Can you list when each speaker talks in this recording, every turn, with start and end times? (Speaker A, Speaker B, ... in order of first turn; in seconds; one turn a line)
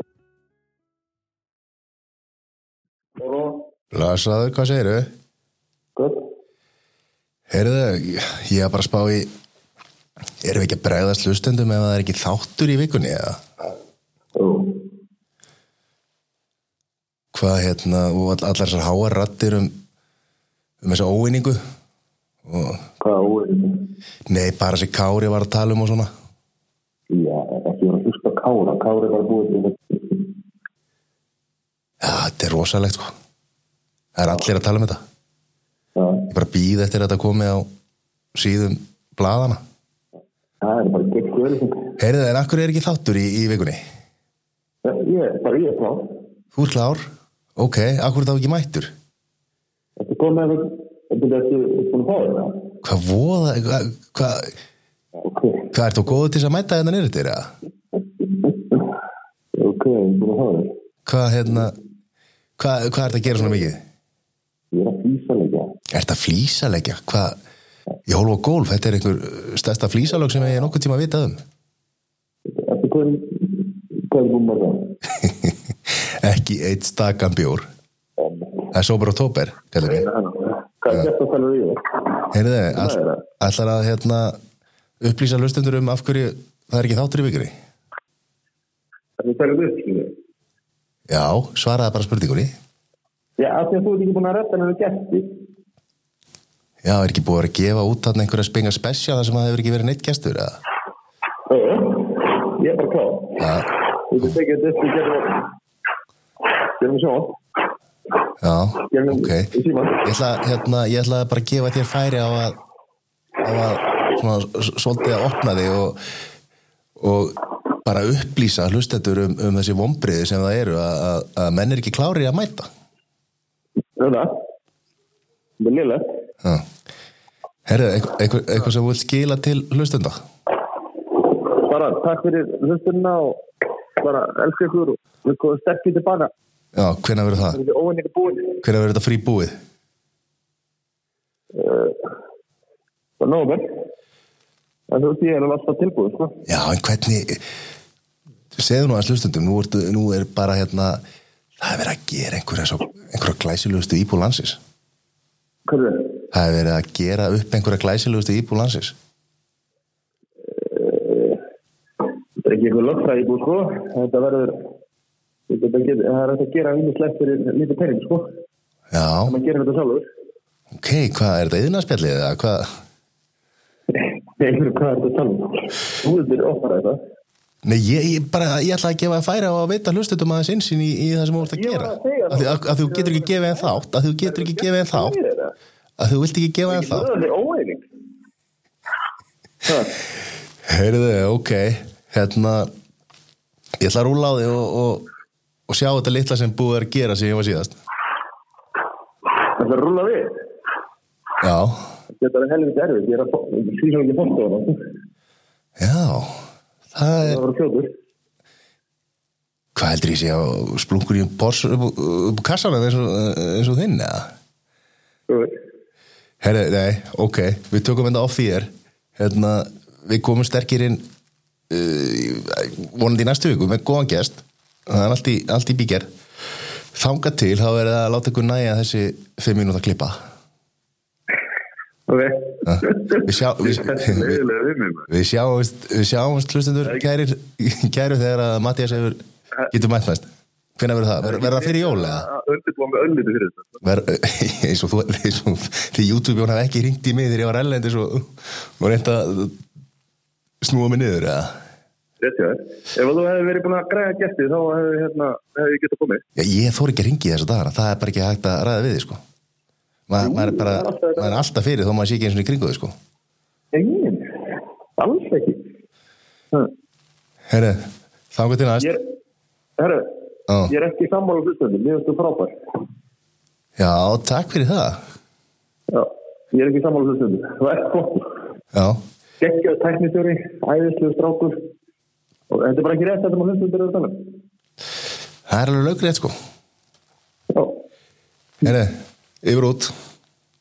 Speaker A: 3.2-3.7
Speaker B: 3.9-5.1
Speaker A: 6.0-6.3
Speaker B: 7.5-9.3
Speaker B: 10.4-13.4
Speaker A: 14.4-14.8
Speaker B: 17.3-19.7
Speaker B: 20.8-21.6
Speaker B: 22.5-22.8
Speaker A: 23.0-23.9
Speaker B: 24.3-26.1
Speaker A: 27.1-30.3
Speaker B: 32.0-33.1
Speaker B: 34.2-35.0
Speaker A: 36.0-36.3
Speaker B: 36.3-37.7
Speaker B: 38.4-39.6
Speaker A: 40.6-41.9
Speaker B: 42.0-43.8
Speaker A: 44.8-46.2
Speaker B: 46.5-47.0
Speaker B: 47.6-48.9
Speaker A: 50.0-52.7
Speaker B: 52.8-54.5
Speaker A: 55.2-55.7
Speaker B: 55.7-57.5
Speaker A: 58.2-58.9
Speaker A: 59.5-60.7
Speaker B: 61.1-61.8
Speaker B: 62.6-63.8
Speaker A: 64.7-65.7
Speaker B: 65.9-67.4
Speaker B: 68.1-71.4
Speaker A: 72.5-75.0
Speaker B: 75.2-77.7
Speaker A: 78.2-78.7
Speaker B: 78.7-80.1
Speaker A: 79.8-83.2
Speaker B: 82.3-84.4
Speaker B: 85.0-87.5
Speaker A: 89.2-90.1
Speaker B: 91.1-92.5
Speaker A: 93.4-95.3
Speaker B: 96.8-100.6
Speaker A: 101.5-103.5
Speaker B: 103.4-103.7
Speaker A: 104.1-105.5
Speaker A: 106.8-107.4
Speaker B: 108.4-109.5
Speaker A: 108.9-110.1
Speaker B: 110.0-112.6
Speaker B: 113.4-116.0
Speaker B: 117.0-122.7
Speaker A: 124.0-124.4
Speaker A: 125.6-126.1
Speaker B: 127.7-130.2
Speaker A: 131.3-133.4
Speaker A: 134.0-136.3
Speaker B: 136.8-137.6
Speaker A: 137.3-138.6
Speaker B: 138.6-139.6
Speaker A: 141.5-142.1
Speaker A: 143.2-143.8
Speaker A: 144.9-146.4
Speaker B: 146.5-147.4
Speaker B: 148.6-151.0
Speaker B: 151.6-154.6
Speaker A: 155.7-156.2
Speaker B: 156.3-158.9
Speaker A: 160.5-161.4
Speaker A: 162.4-164.6
Speaker A: 165.5-168.3
Speaker B: 168.9-169.3
Speaker A: 169.2-170.1
Speaker B: 170.8-172.7
Speaker A: 173.9-177.0
Speaker B: 177.6-185.2
Speaker A: 181.4-185.5
Speaker B: 186.0-187.1
Speaker A: 186.7-187.8
Speaker A: 189.7-190.0
Speaker B: 190.7-192.7
Speaker B: 193.8-195.1
Speaker B: 195.7-197.8
Speaker A: 199.6-200.4
Speaker B: 201.4-201.8
Speaker A: 202.1-204.8
Speaker B: 205.8-206.4
Speaker B: 206.9-207.4
Speaker A: 207.2-207.9
Speaker B: 209.8-214.3
Speaker A: 215.3-215.6
Speaker B: 216.4-221.0
Speaker B: 221.7-226.1
Speaker B: 226.9-230.2
Speaker A: 232.1-235.1
Speaker B: 232.7-234.4
Speaker B: 235.1-240.2
Speaker B: 240.8-242.3
Speaker A: 241.2-243.8
Speaker B: 243.8-249.6
Speaker B: 250.6-251.5
Speaker A: 252.2-256.2
Speaker B: 256.4-259.2
Speaker B: 260.1-262.9
Speaker A: 260.2-261.4
Speaker A: 263.7-265.7
Speaker B: 267.5-268.9
Speaker A: 269.8-270.1
Speaker B: 270.5-270.7
Speaker A: 270.7-272.5
Speaker B: 273.8-275.0
Speaker A: 275.9-278.4
Speaker B: 278.7-279.0
Speaker A: 279.4-281.7
Speaker A: 282.5-284.4
Speaker B: 285.5-286.3
Speaker A: 287.5-287.8
Speaker B: 288.6-289.9